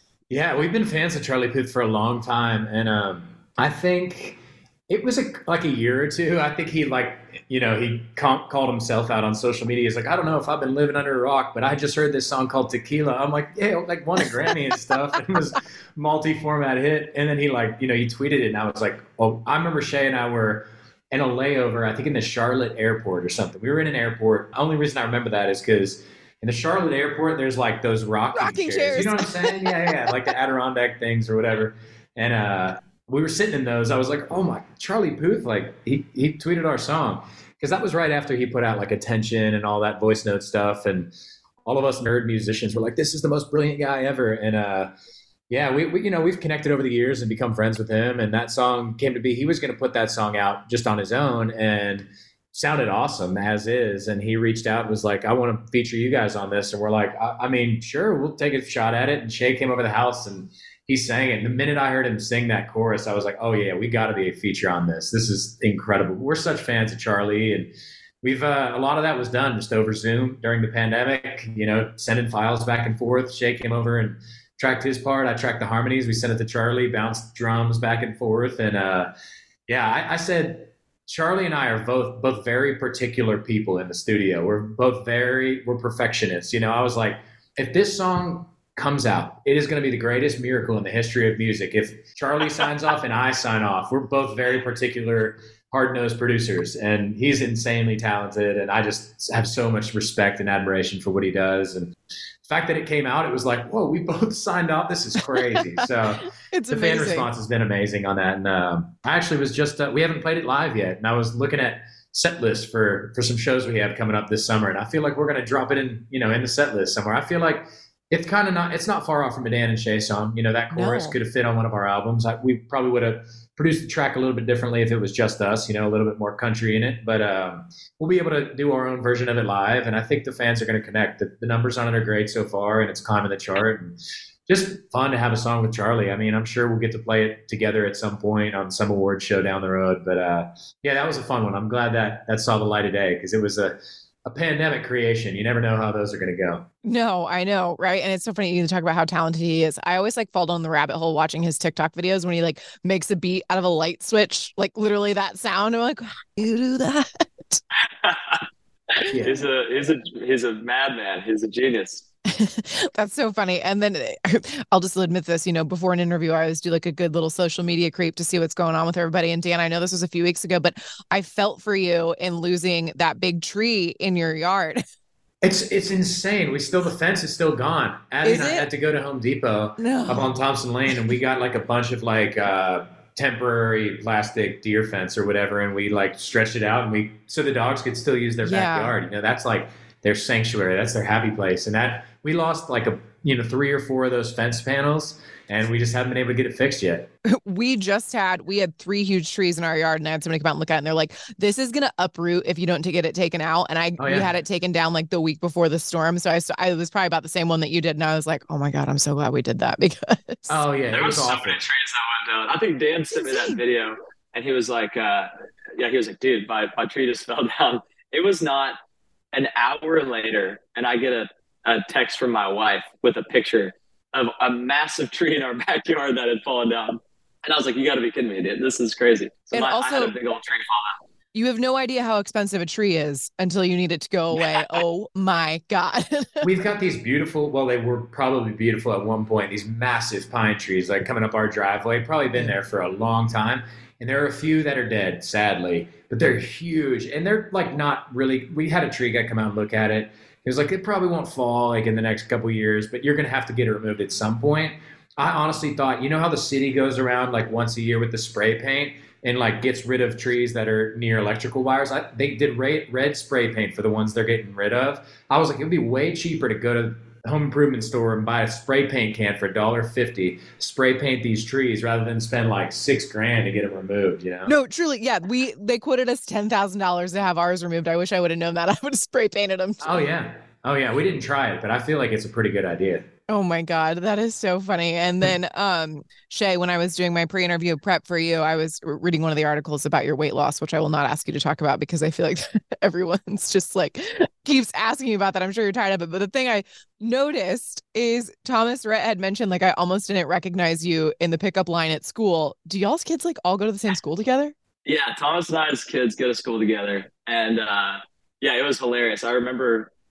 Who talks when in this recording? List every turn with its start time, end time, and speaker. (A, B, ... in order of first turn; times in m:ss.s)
0:00.3-0:04.4 A
0:04.9-0:41.1 A
0:28.3-0:30.0 B
0:41.6-0:44.9 A
0:45.5-1:19.1 A
1:19.7-1:41.9 A
1:42.4-2:14.0 A
1:46.4-1:47.3 B
2:00.7-2:01.2 B
2:14.5-2:26.6 A
2:26.8-2:37.6 B
2:38.0-2:38.4 C
2:39.0-2:42.0 C
2:42.3-2:54.8 B
2:55.4-3:17.1 A
2:58.2-2:58.7 B
2:59.8-3:00.3 B
3:08.4-3:08.9 B
3:17.3-3:30.6 B
3:24.0-3:24.3 A
3:30.5-3:31.6 A
3:30.9-3:38.8 C
3:33.1-3:33.6 B
3:39.3-3:50.9 C
3:49.5-3:50.1 B
3:51.3-3:56.5 B
3:56.4-4:34.5 A
4:34.4-4:40.1 B
4:39.8-4:43.0 A
4:43.3-5:04.5 B
5:04.8-5:09.9 C